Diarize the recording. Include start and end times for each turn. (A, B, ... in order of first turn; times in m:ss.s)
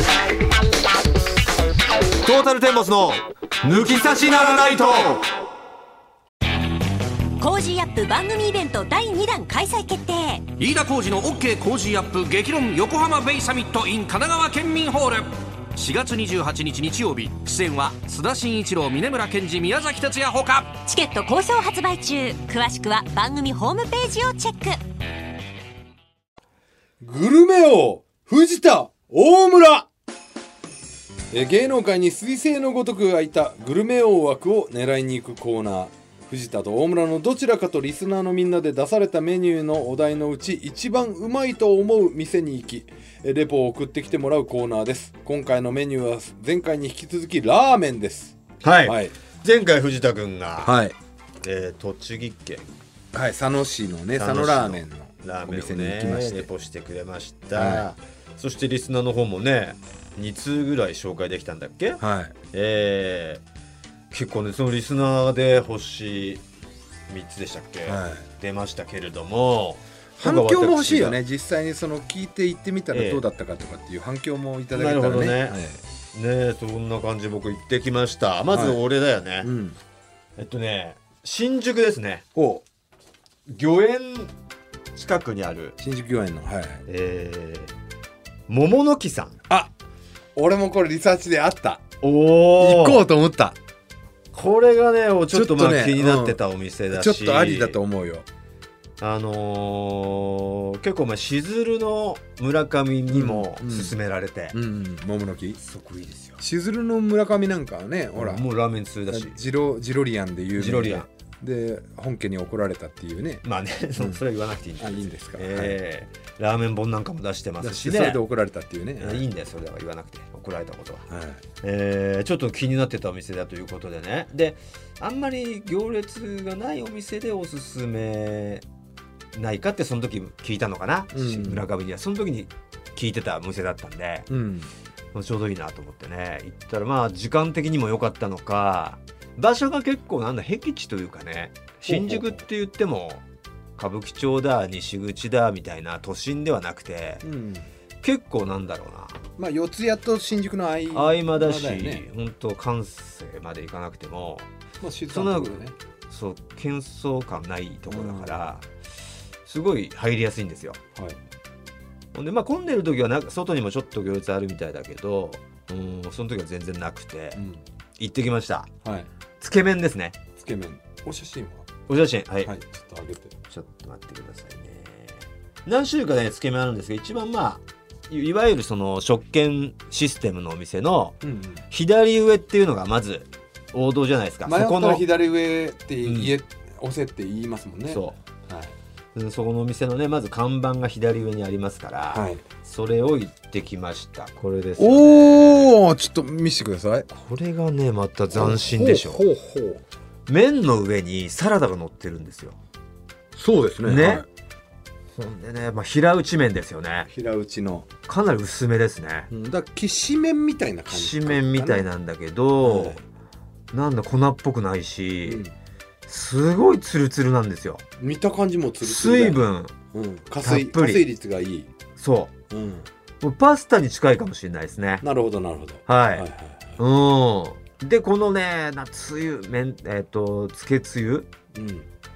0:02.2-0:05.3 A
0:07.4-0:10.5 B
0:10.6-0:20.7 C
0:20.8-0:24.8 B
0:27.0-0:29.9 D
0:31.3-0:49.1 D
0:48.6-0:50.8 A
0:50.6-0:51.0 D
0:51.4-0:52.7 A
0:53.1-0:56.5 D
0:54.1-1:03.4 A
0:57.5-0:57.8 D
1:02.0-1:02.3 D
1:04.1-1:06.4 A
1:07.1-1:11.2 A
1:07.8-1:08.2 D
1:10.2-1:15.8 D
1:12.9-1:13.2 A
1:14.7-1:15.6 A
1:16.1-1:19.5 A
1:18.5-1:18.8 D
1:19.4-1:19.8 D
1:20.4-1:22.2 A
1:22.3-1:22.6 D
1:23.5-1:24.3 A
1:24.9-1:25.8 A
1:25.8-1:26.8 D
1:26.9-1:27.7 A
1:28.5-1:29.4 A
1:30.3-1:31.8 D
1:32.0-1:33.0 A
1:32.6-1:33.6 D
1:34.3-1:37.8 A
1:35.3-1:36.4 D
1:36.9-1:38.2 D
1:39.0-1:44.6 A
1:43.1-1:43.9 D
1:44.5-1:45.6 D
1:45.6-1:46.4 A
1:46.4-1:48.4 D
1:48.2-1:49.4 A
1:49.1-1:53.4 D
1:50.6-1:51.1 A
1:53.4-1:58.2 A
1:54.8-1:55.8 D
1:57.6-1:59.2 D
1:59.0-2:01.0 A
2:01.1-2:01.4 D
2:01.6-2:08.6 A
2:09.3-2:14.3 A
2:11.1-2:11.6 D
2:14.3-2:14.7 D
2:15.1-2:23.2 A
2:21.8-2:22.4 D
2:23.8-2:27.2 A
2:27.2-2:27.7 D
2:28.0-2:29.2 A
2:29.4-2:32.0 D
2:30.9-2:34.5 A
2:34.8-2:35.7 D
2:35.1-2:38.7 A
2:37.9-2:38.4 D
2:39.4-2:40.8 A
2:42.1-2:47.4 A
2:47.4-2:47.6 D
2:48.0-2:48.7 A
2:48.8-2:49.1 D
2:49.4-2:50.2 A
2:50.4-2:51.7 D
2:51.9-2:52.5 A
2:52.4-2:53.3 D
2:53.5-3:01.2 A
3:01.2-3:01.6 D
3:01.7-3:05.0 A
3:04.4-3:08.7 D
3:06.0-3:06.3 A
3:07.9-3:08.2 A
3:09.1-3:15.7 A
3:12.1-3:12.4 D
3:14.8-3:17.1 D
3:17.1-3:19.2 A
3:18.3-3:19.8 D
3:20.3-3:22.6 A
3:23.3-3:24.2 D
3:23.8-3:24.2 A
3:25.2-3:27.1 A
3:27.1-3:27.9 D
3:28.1-3:29.3 A
3:29.3-3:31.8 D
3:30.9-3:33.0 A
3:32.6-3:33.0 D
3:33.7-3:35.4 A
3:35.2-3:35.5 D
3:36.1-3:37.8 A
3:38.0-3:39.4 D
3:38.8-3:39.8 A
3:39.9-3:41.7 D
3:40.4-3:41.0 A
3:42.0-3:42.3 A
3:42.5-3:42.9 D
3:43.2-3:45.0 A
3:45.0-3:46.8 D
3:45.8-3:51.3 A
3:51.5-3:51.9 D